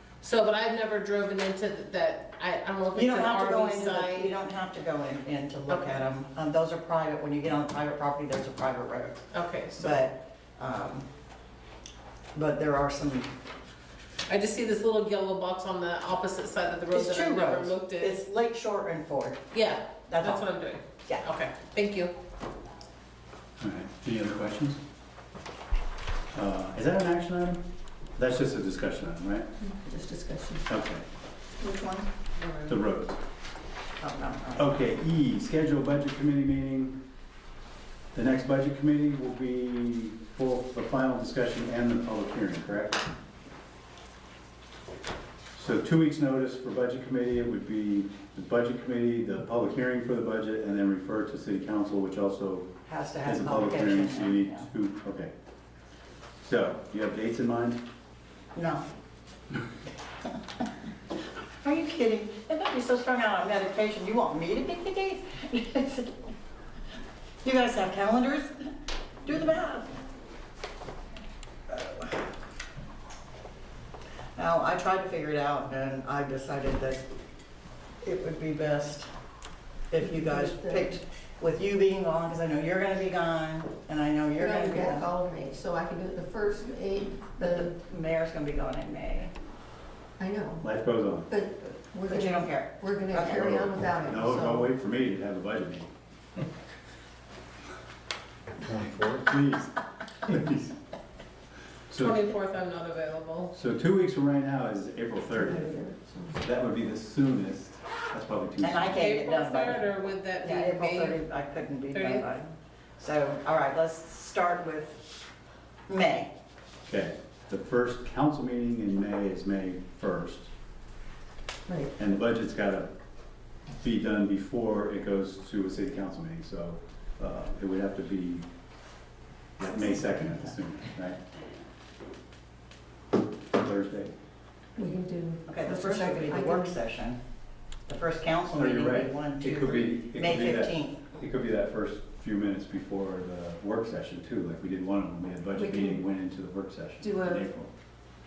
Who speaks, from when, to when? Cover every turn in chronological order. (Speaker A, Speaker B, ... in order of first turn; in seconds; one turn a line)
Speaker A: 0.2-4.4
Speaker B: 2.9-9.2
Speaker A: 5.7-6.0
Speaker A: 9.3-10.1
Speaker B: 9.8-11.1
Speaker B: 12.3-13.3
Speaker A: 14.3-18.2
Speaker B: 16.9-19.5
Speaker A: 19.5-22.1
Speaker B: 20.1-20.5
Speaker C: 23.6-24.8
Speaker C: 26.3-27.6
Speaker C: 28.2-29.5
Speaker D: 29.6-30.6
Speaker C: 30.7-31.0
Speaker B: 31.6-32.1
Speaker A: 32.4-32.7
Speaker C: 32.7-33.2
Speaker B: 34.0-34.8
Speaker C: 34.6-37.0
Speaker C: 38.1-43.1
Speaker C: 45.5-52.7
Speaker B: 52.9-54.7
Speaker C: 53.2-55.3
Speaker C: 56.4-57.8
Speaker B: 58.5-58.8
Speaker B: 61.6-66.1
Speaker B: 67.4-68.7
Speaker B: 69.2-69.9
Speaker B: 71.7-72.2
Speaker B: 74.4-77.0
Speaker B: 78.0-79.1
Speaker B: 79.9-85.1
Speaker D: 80.0-80.9
Speaker D: 84.4-87.7
Speaker B: 87.4-89.3
Speaker D: 90.2-90.6
Speaker C: 90.6-91.3
Speaker D: 91.3-94.7
Speaker B: 92.1-93.5
Speaker C: 93.3-95.9
Speaker C: 98.7-100.8
Speaker C: 101.9-102.2
Speaker A: 102.0-103.5
Speaker C: 103.5-105.8
Speaker D: 105.3-106.4
Speaker C: 106.4-109.0
Speaker B: 108.6-109.8
Speaker A: 108.9-111.2
Speaker B: 110.4-115.0
Speaker A: 111.9-112.2
Speaker B: 115.9-116.3
Speaker C: 116.9-120.5
Speaker D: 121.7-121.9
Speaker C: 122.0-122.9
Speaker C: 123.8-128.5
Speaker C: 129.6-131.2
Speaker C: 133.5-134.1
Speaker D: 134.8-136.8
Speaker B: 135.5-137.2
Speaker B: 137.9-141.1
Speaker C: 138.6-147.7
Speaker D: 145.6-146.0
Speaker D: 147.0-147.4